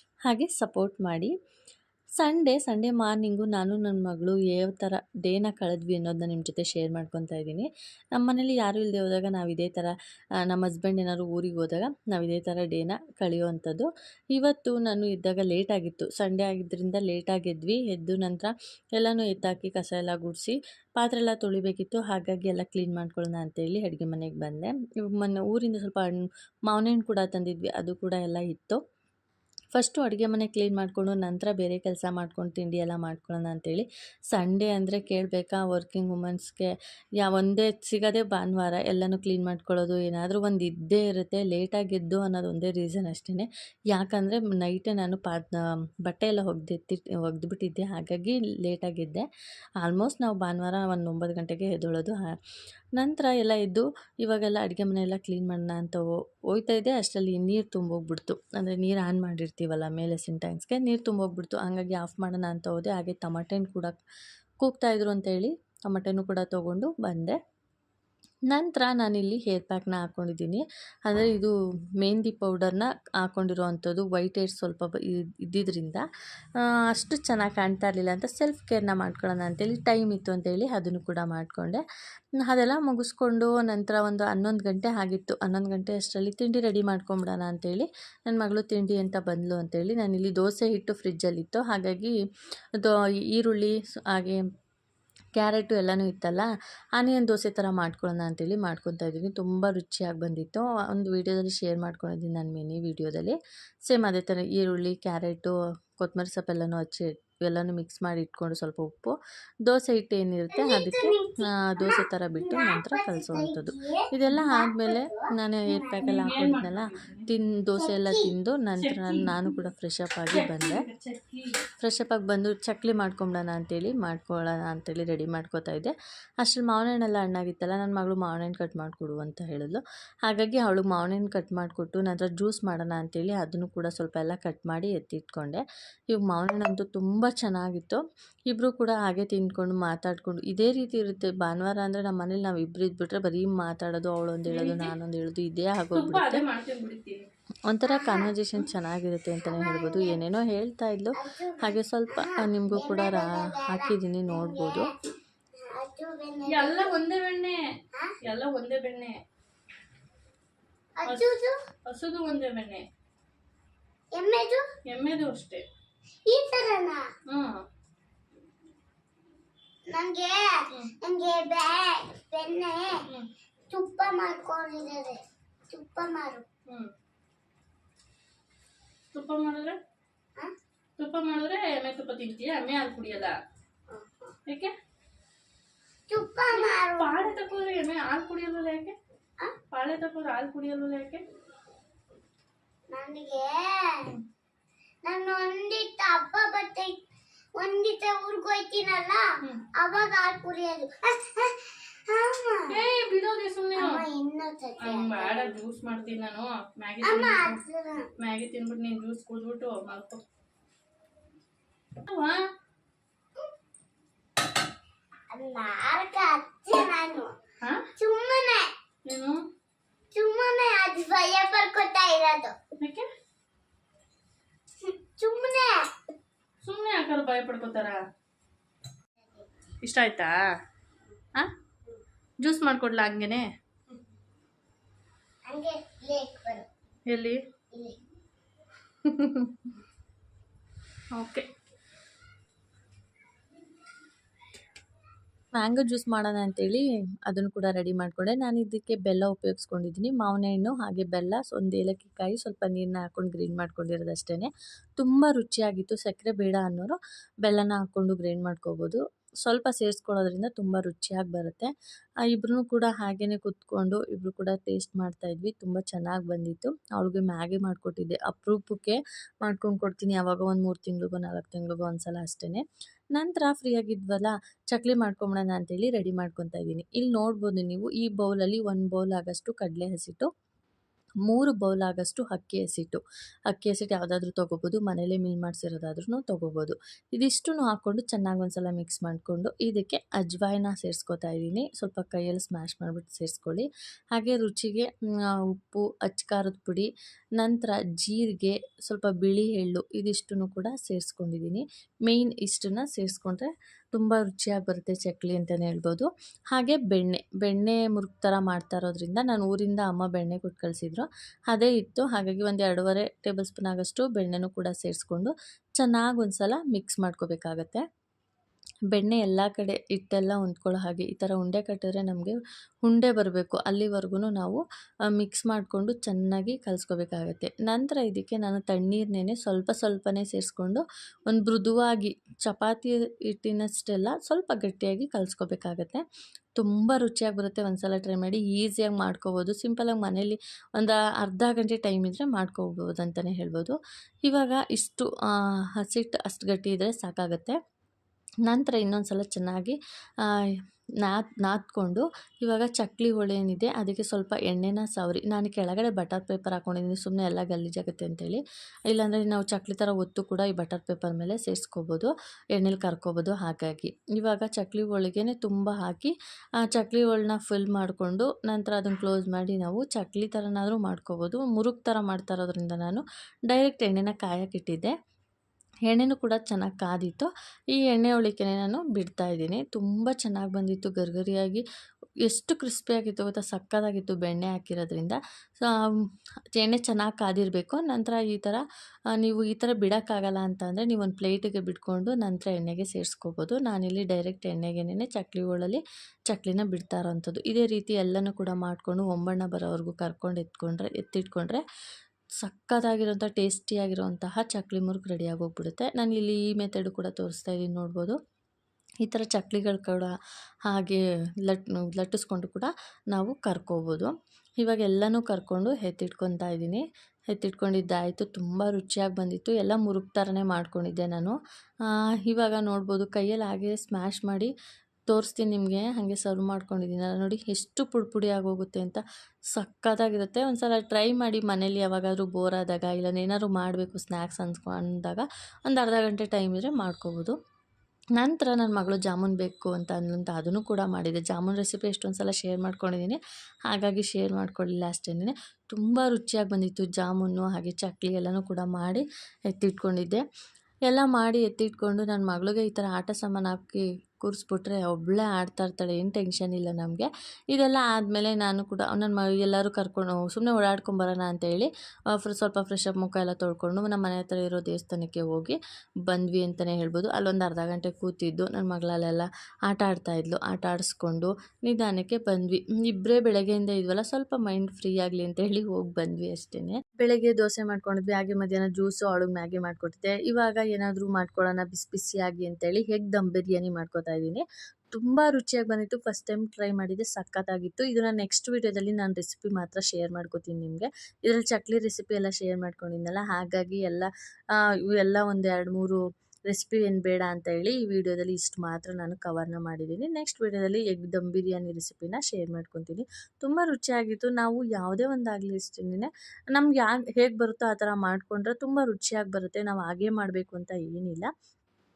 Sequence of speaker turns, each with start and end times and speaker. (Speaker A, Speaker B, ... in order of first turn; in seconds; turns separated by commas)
Speaker A: 0.3-1.3, Speaker A: 2.2-9.9, Speaker A: 10.5-28.8, Speaker A: 29.7-49.3, Speaker A: 49.8-52.2, Speaker A: 53.0-64.0, Speaker A: 64.6-67.4, Speaker A: 68.5-76.0, Speaker A: 76.9-81.8, Speaker A: 82.4-92.2, Speaker A: 92.8-94.5, Speaker A: 95.4-120.8, Speaker B: 110.5-116.3, Speaker C: 116.0-117.3, Speaker B: 117.8-118.3, Speaker C: 118.8-119.4, Speaker C: 120.3-121.6, Speaker A: 121.8-146.4, Speaker C: 144.5-144.9, Speaker C: 145.9-147.3, Speaker A: 147.7-154.9, Speaker B: 147.9-148.3, Speaker B: 149.4-150.2, Speaker B: 151.2-154.9, Speaker B: 155.6-157.0, Speaker C: 156.5-157.6, Speaker C: 158.2-159.2, Speaker B: 161.0-161.6, Speaker C: 161.9-162.8, Speaker B: 164.1-164.6, Speaker C: 164.9-165.7, Speaker B: 166.3-167.1, Speaker C: 167.3-167.6, Speaker B: 169.9-173.1, Speaker B: 173.7-176.4, Speaker C: 179.1-179.8, Speaker C: 181.0-183.4, Speaker B: 183.9-184.4, Speaker C: 184.5-184.7, Speaker B: 186.1-187.5, Speaker C: 186.5-189.0, Speaker C: 189.7-191.2, Speaker B: 192.9-194.2, Speaker B: 195.1-197.0, Speaker B: 197.6-199.2, Speaker B: 199.8-202.8, Speaker C: 202.7-204.1, Speaker B: 203.8-205.6, Speaker C: 204.8-207.6, Speaker B: 207.0-208.1, Speaker C: 208.2-210.2, Speaker C: 212.0-212.4, Speaker B: 215.3-217.3, Speaker B: 218.0-218.7, Speaker C: 219.1-219.4, Speaker B: 220.1-222.6, Speaker C: 222.8-223.1, Speaker B: 224.8-225.9, Speaker C: 226.6-228.0, Speaker B: 229.2-229.8, Speaker C: 229.8-230.4, Speaker C: 232.4-233.5, Speaker B: 235.5-236.7, Speaker C: 237.1-237.4, Speaker B: 237.7-238.0, Speaker C: 239.0-239.7, Speaker C: 241.1-241.5, Speaker A: 245.5-261.7, Speaker A: 262.3-280.3, Speaker A: 281.2-317.8, Speaker A: 318.9-324.6, Speaker A: 325.1-336.0, Speaker A: 336.6-345.1, Speaker A: 345.8-347.6, Speaker A: 348.5-349.8, Speaker A: 351.0-366.1, Speaker A: 366.7-374.9, Speaker A: 375.9-381.6, Speaker A: 382.3-385.7, Speaker A: 386.6-401.6, Speaker A: 402.4-408.2, Speaker A: 409.0-410.1, Speaker A: 410.7-421.4, Speaker A: 422.3-424.5, Speaker A: 425.1-429.0, Speaker A: 429.6-437.4, Speaker A: 438.2-450.2, Speaker A: 450.9-511.3